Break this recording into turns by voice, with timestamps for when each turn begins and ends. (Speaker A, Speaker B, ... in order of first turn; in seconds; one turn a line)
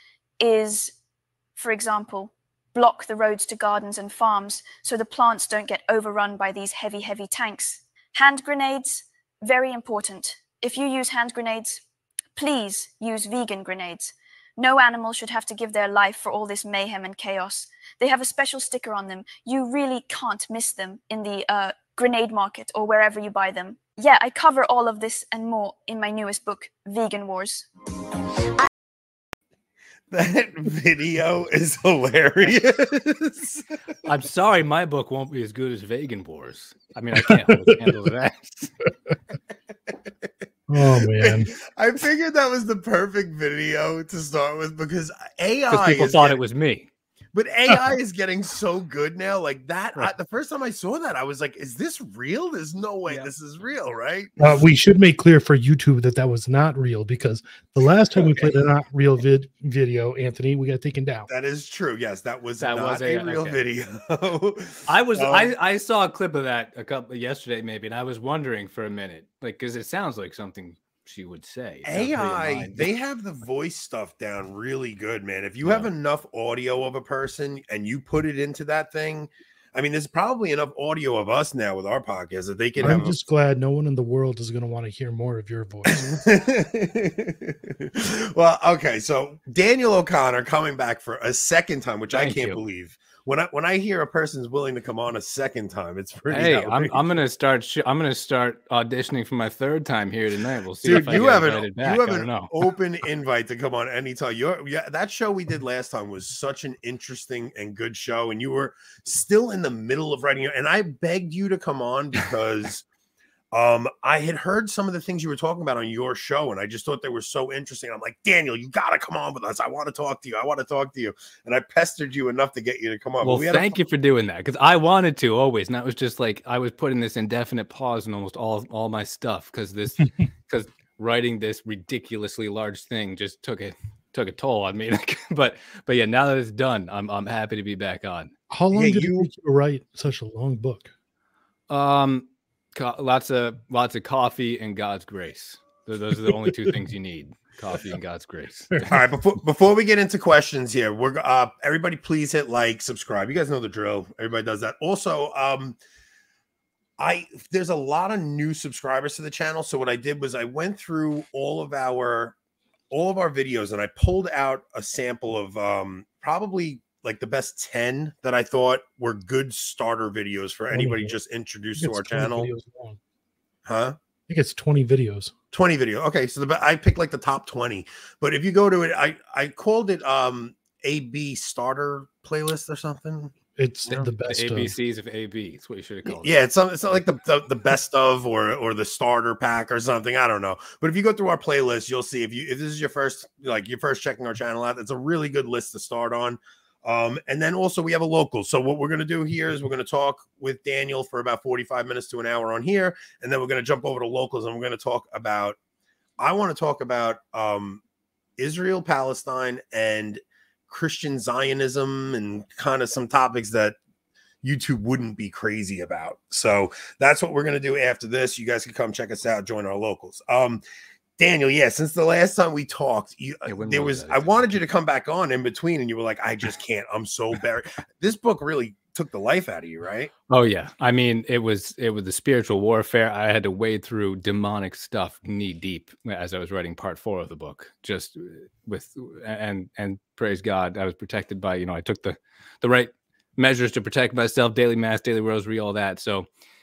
Speaker A: 0.4-0.9
Speaker A: 1.6-11.8
Speaker A: 12.3-27.7
Speaker B: 30.1-33.6
Speaker C: 34.0-38.7
Speaker D: 37.3-37.9
Speaker B: 39.9-40.3
Speaker D: 40.7-41.5
Speaker B: 40.8-46.4
Speaker C: 45.7-46.9
Speaker B: 47.3-54.3
Speaker D: 54.4-61.3
Speaker B: 61.3-65.5
Speaker C: 62.6-63.6
Speaker C: 64.9-72.9
Speaker B: 71.8-83.2
Speaker C: 75.6-75.9
Speaker D: 82.8-86.0
Speaker B: 85.9-97.0
Speaker C: 92.1-92.6
Speaker C: 96.3-102.5
Speaker B: 100.8-112.8
Speaker B: 113.5-123.7
Speaker C: 123.2-138.3
Speaker D: 138.5-140.9
Speaker B: 138.7-139.3
Speaker C: 141.7-149.0
Speaker B: 148.9-155.8
Speaker B: 157.0-162.3
Speaker B: 162.9-172.5
Speaker D: 170.7-171.1
Speaker D: 171.8-173.0
Speaker B: 173.7-173.9
Speaker D: 174.3-175.3
Speaker B: 175.5-183.3
Speaker D: 183.6-184.7
Speaker C: 183.9-186.4
Speaker B: 186.1-205.6
Speaker B: 206.2-207.8
Speaker B: 208.4-213.8
Speaker B: 214.4-220.6
Speaker B: 221.2-230.1
Speaker C: 223.4-224.6
Speaker C: 230.3-246.3